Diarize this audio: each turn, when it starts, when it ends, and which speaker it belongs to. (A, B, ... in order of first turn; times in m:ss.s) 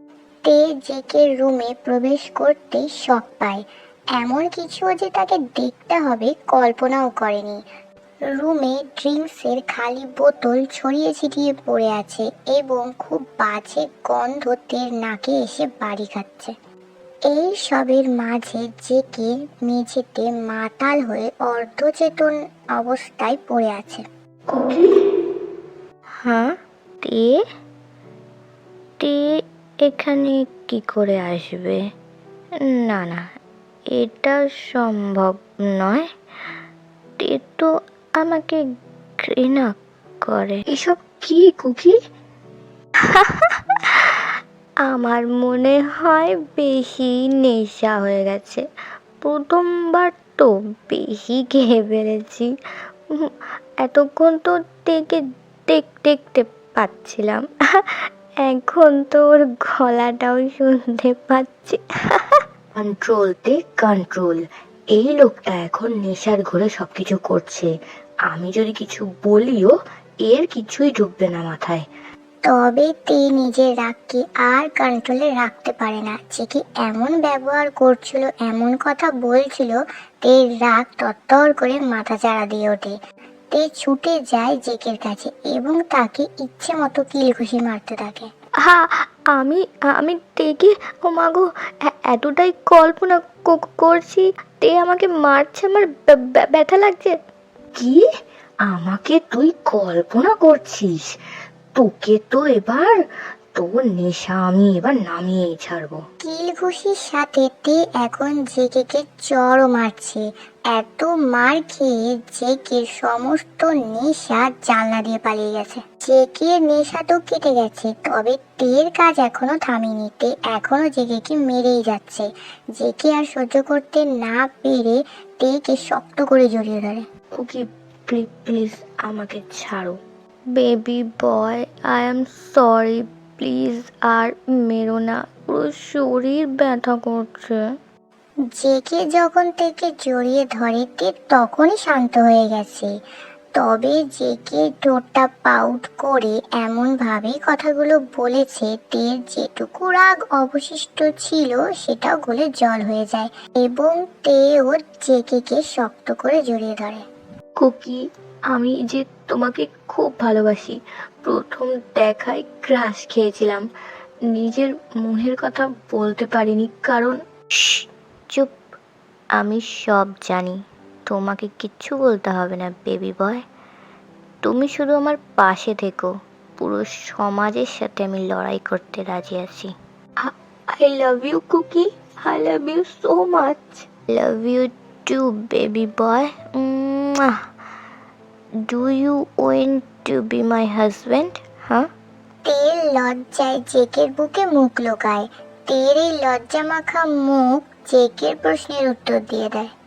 0:00.4-0:07.6 A
0:08.3-0:16.5 A
0:17.3-0:24.0 A
0:24.5-0:24.8 B
0:26.2-0:27.4 C
0:29.0-0:29.2 C
0:29.8-0:31.8 C
0:32.7-0:33.2 C
0:33.9-0:36.1 C
0:37.2-0:37.7 C
0:38.2-0:38.6 C
0:39.2-0:39.7 C
0:40.2-0:40.6 C
0:40.7-0:42.0 B
0:43.0-0:44.2 C
0:44.9-0:48.6 C
0:49.2-0:52.5 C
0:53.8-0:57.4 C
0:58.4-1:02.4 C
1:02.7-1:04.4 B
1:04.9-1:07.7 B
1:08.3-1:09.7 B
1:10.2-1:11.8 B
1:12.4-1:23.0 A
1:23.5-1:28.3 A
1:28.7-1:37.1 C
1:37.8-1:38.0 B
1:38.7-1:41.1 B
1:41.7-1:43.0 B
1:43.6-1:46.0 B
1:46.2-2:07.0 A
2:07.3-2:10.0 B
2:10.6-2:17.6 C
2:18.6-2:22.9 A
2:23.6-2:37.0 A
2:37.6-2:38.0 B
2:38.5-2:43.6 B
2:44.3-2:47.2 B
2:47.6-2:48.6 C
2:49.4-2:53.4 C
2:54.4-2:59.7 C
3:00.2-3:03.8 B
3:04.1-3:07.4 C
3:08.7-3:11.9 C
3:12.4-3:19.7 A